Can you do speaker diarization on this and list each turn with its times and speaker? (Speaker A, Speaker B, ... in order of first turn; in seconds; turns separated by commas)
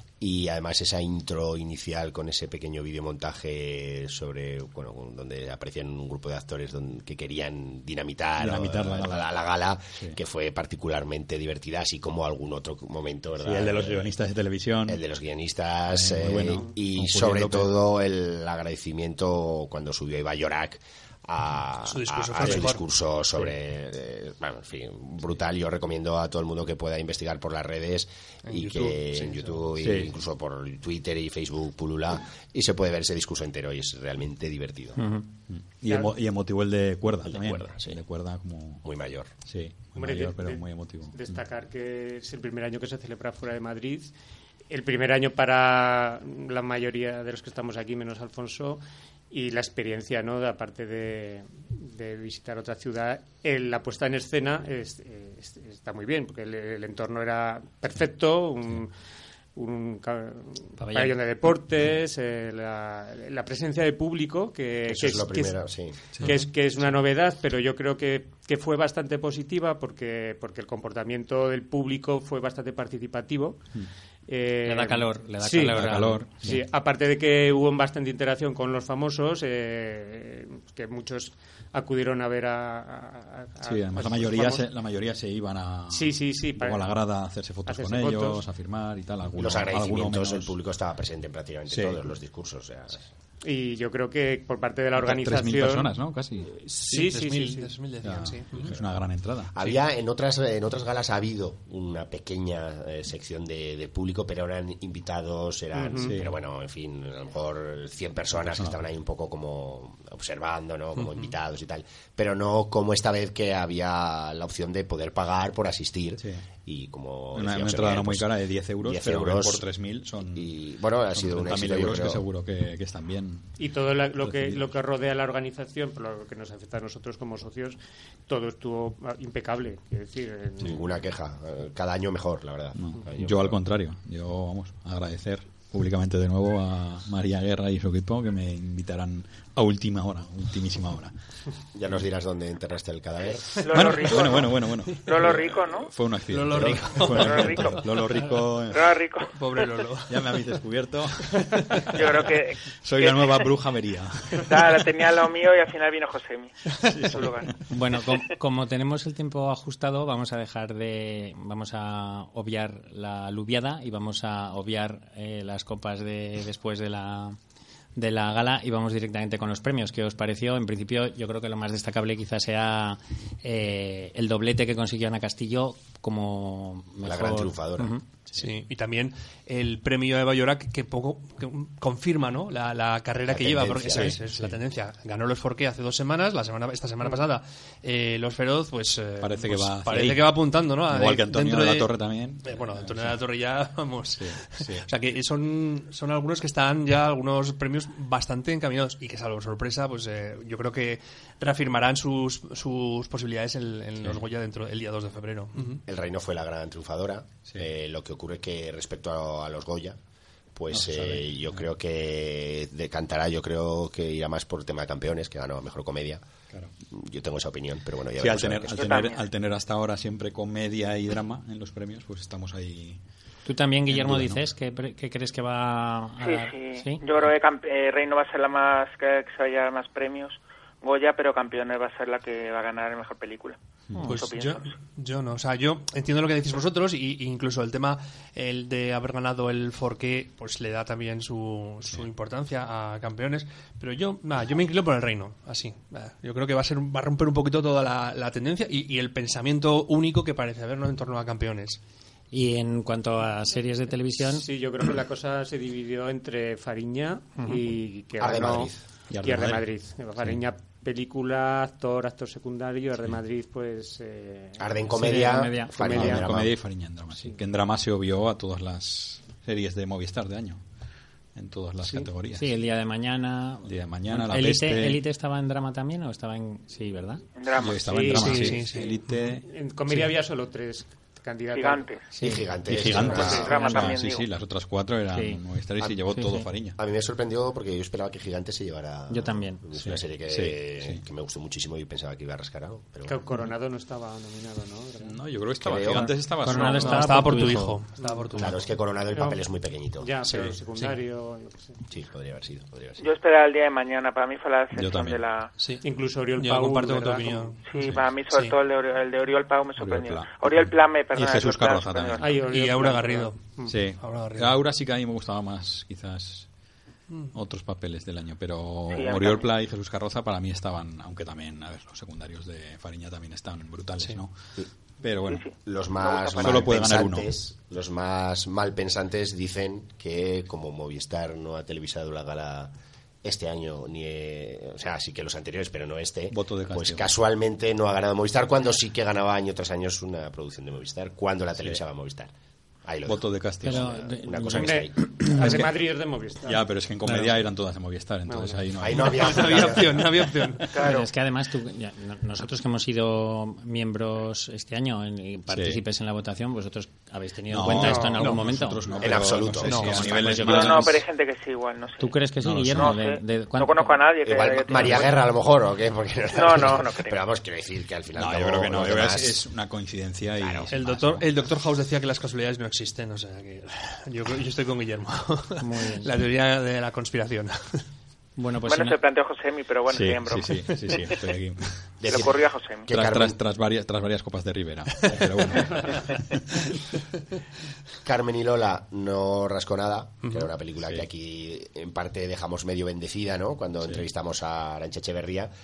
Speaker A: 0.2-14.1, Speaker B: 8.4-9.3, Speaker B: 13.4-15.0, Speaker A: 14.9-35.0, Speaker B: 15.9-17.7, Speaker C: 21.9-22.8, Speaker C: 28.5-29.6, Speaker B: 29.8-30.1, Speaker D: 35.0-35.3, Speaker B: 35.5-38.9, Speaker A: 37.2-38.0, Speaker A: 38.8-39.3, Speaker B: 39.5-41.4, Speaker E: 40.0-44.1, Speaker E: 44.7-58.9, Speaker E: 59.5-73.6, Speaker D: 60.8-61.2, Speaker A: 64.9-66.3, Speaker E: 74.3-75.8, Speaker D: 74.7-76.5, Speaker B: 75.8-76.6, Speaker E: 76.4-84.7, Speaker B: 83.6-90.5, Speaker E: 85.9-86.8, Speaker E: 87.7-88.4, Speaker A: 89.4-93.1, Speaker B: 91.7-92.0, Speaker E: 93.4-96.0, Speaker B: 95.0-96.5, Speaker E: 96.5-97.7, Speaker C: 96.9-98.8, Speaker B: 98.0-99.8, Speaker A: 99.5-119.7, Speaker E: 105.7-106.2, Speaker B: 106.0-106.3, Speaker B: 108.5-108.8, Speaker C: 111.0-111.3, Speaker B: 117.3-120.5, Speaker A: 120.2-122.2, Speaker B: 121.1-123.6, Speaker E: 123.6-130.8, Speaker B: 124.2-124.6, Speaker A: 130.6-133.6, Speaker B: 132.8-141.2, Speaker A: 141.7-143.6, Speaker F: 143.6-145.9, Speaker B: 143.7-149.0, Speaker C: 146.3-148.3, Speaker F: 147.1-147.9, Speaker F: 148.7-149.9, Speaker C: 149.3-150.4, Speaker B: 150.1-154.8, Speaker C: 151.4-151.9, Speaker F: 151.9-153.5, Speaker F: 154.4-157.5, Speaker B: 156.8-157.6, Speaker D: 157.7-167.4, Speaker D: 168.0-178.0, Speaker A: 177.0-177.9, Speaker C: 178.4-191.9, Speaker A: 183.3-184.2, Speaker B: 183.9-184.6, Speaker B: 189.2-193.2, Speaker C: 192.4-205.8, Speaker B: 194.2-194.9, Speaker A: 205.9-210.0, Speaker A: 210.6-216.2, Speaker B: 210.7-211.7, Speaker A: 216.9-219.0, Speaker B: 218.2-223.0, Speaker F: 218.8-219.2, Speaker D: 223.5-227.0, Speaker B: 223.9-224.4, Speaker F: 226.2-234.7, Speaker C: 234.1-251.8, Speaker D: 252.3-254.4, Speaker E: 254.2-266.3, Speaker A: 258.2-258.8, Speaker B: 259.1-259.7, Speaker A: 264.6-266.6, Speaker D: 264.9-265.7, Speaker B: 265.8-270.6, Speaker B: 271.3-272.5, Speaker D: 271.9-277.2, Speaker B: 273.6-275.0, Speaker F: 277.4-278.1, Speaker B: 277.6-279.5, Speaker E: 277.9-282.0, Speaker C: 278.2-279.0, Speaker F: 281.5-282.1, Speaker D: 282.1-282.4, Speaker A: 282.2-283.5, Speaker B: 282.2-286.8, Speaker F: 282.9-284.3, Speaker E: 282.9-283.9, Speaker D: 285.1-286.5, Speaker A: 286.8-293.2, Speaker D: 289.1-289.6, Speaker B: 289.8-291.0, Speaker E: 293.1-295.2, Speaker B: 295.0-297.6, Speaker A: 295.6-296.2, Speaker D: 296.4-297.8, Speaker C: 296.6-298.6, Speaker E: 298.0-298.5, Speaker A: 298.4-300.1, Speaker E: 299.1-301.8, Speaker C: 300.2-300.9, Speaker A: 301.9-303.0, Speaker F: 303.0-305.5, Speaker B: 304.8-305.2, Speaker C: 305.6-305.8, Speaker E: 305.8-307.6, Speaker C: 306.4-308.6, Speaker F: 307.6-312.3, Speaker B: 307.8-308.1, Speaker B: 309.8-312.4, Speaker E: 312.2-313.8, Speaker C: 312.4-314.6, Speaker B: 313.7-316.5, Speaker C: 317.1-317.3, Speaker B: 317.3-324.5, Speaker F: 318.9-319.5, Speaker B: 325.0-325.5, Speaker F: 325.2-326.6, Speaker A: 325.6-332.7, Speaker B: 326.3-327.3, Speaker A: 333.2-342.3, Speaker B: 336.3-337.1, Speaker A: 342.9-345.1, Speaker B: 343.1-343.9, Speaker D: 343.6-345.6, Speaker E: 344.5-346.6, Speaker B: 345.4-345.8, Speaker B: 346.4-350.1, Speaker E: 348.3-348.6, Speaker A: 348.8-350.2, Speaker C: 349.1-351.1, Speaker E: 350.8-351.1, Speaker D: 350.8-358.8, Speaker B: 355.5-355.8, Speaker B: 357.5-361.0, Speaker E: 357.7-358.4, Speaker A: 358.9-360.4, Speaker D: 359.6-361.0, Speaker F: 360.0-365.2, Speaker D: 362.0-363.9, Speaker B: 362.4-362.9, Speaker A: 364.2-369.4, Speaker D: 364.8-365.0, Speaker F: 366.3-367.2, Speaker B: 368.1-371.2, Speaker A: 370.4-370.8, Speaker C: 370.7-377.9, Speaker D: 375.6-376.1, Speaker D: 378.4-379.0, Speaker F: 378.7-380.8, Speaker B: 379.9-382.0, Speaker A: 382.0-383.4, Speaker F: 382.0-382.9, Speaker B: 382.9-386.4, Speaker A: 388.0-395.5, Speaker C: 390.2-390.5